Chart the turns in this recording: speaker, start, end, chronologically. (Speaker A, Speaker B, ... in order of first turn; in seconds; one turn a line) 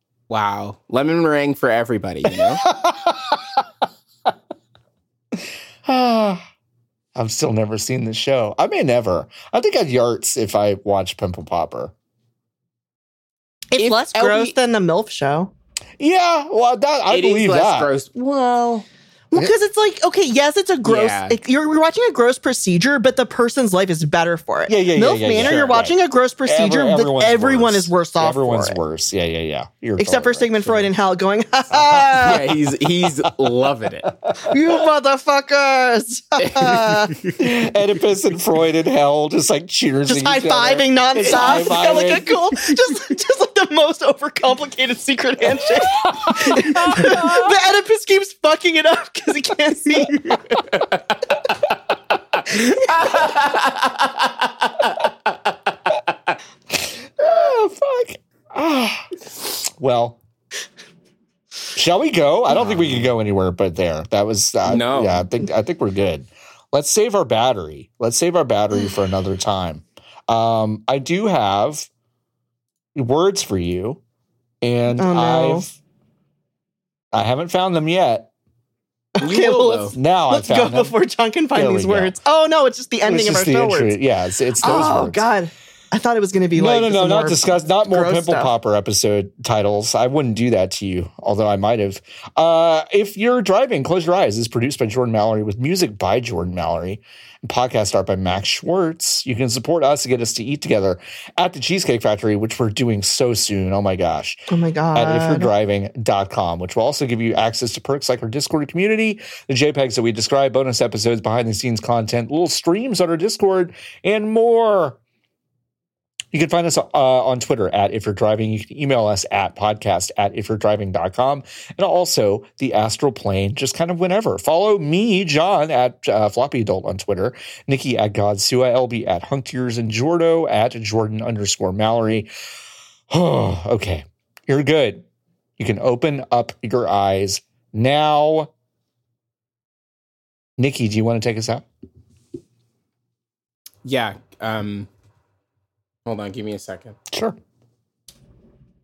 Speaker A: 0.3-2.6
Speaker B: 2.3-3.6
Speaker B: 5.8-6.4
Speaker B: 7.1-11.9
Speaker C: 13.7-15.5
Speaker A: 13.8-14.5
Speaker B: 16.0-17.9
Speaker A: 17.1-18.8
Speaker C: 19.3-28.8
Speaker A: 20.8-21.4
Speaker B: 24.7-30.9
Speaker A: 25.4-25.8
Speaker C: 30.0-32.5
Speaker B: 31.7-32.4
Speaker A: 32.2-34.1
Speaker B: 34.2-34.6
Speaker C: 34.4-37.2
Speaker A: 36.6-37.0
Speaker B: 37.4-42.3
Speaker C: 40.1-50.6
Speaker B: 46.1-47.5
Speaker A: 52.4-55.3
Speaker B: 56.7-60.2
Speaker B: 61.7-71.9
Speaker A: 62.6-63.0
Speaker A: 64.7-65.3
Speaker B: 72.9-74.0
Speaker B: 74.6-75.7
Speaker C: 75.0-75.7
Speaker B: 77.1-78.3
Speaker C: 79.2-84.0
Speaker A: 79.2-80.0
Speaker B: 79.9-80.9
Speaker B: 81.5-82.1
Speaker B: 83.0-85.2
Speaker C: 84.6-88.5
Speaker B: 86.5-104.4
Speaker C: 104.5-105.5
Speaker B: 104.9-115.0
Speaker B: 116.3-132.3
Speaker B: 133.1-135.0
Speaker B: 135.6-138.5
Speaker B: 140.6-141.6
Speaker A: 143.8-144.9
Speaker A: 146.0-147.0
Speaker B: 147.1-147.4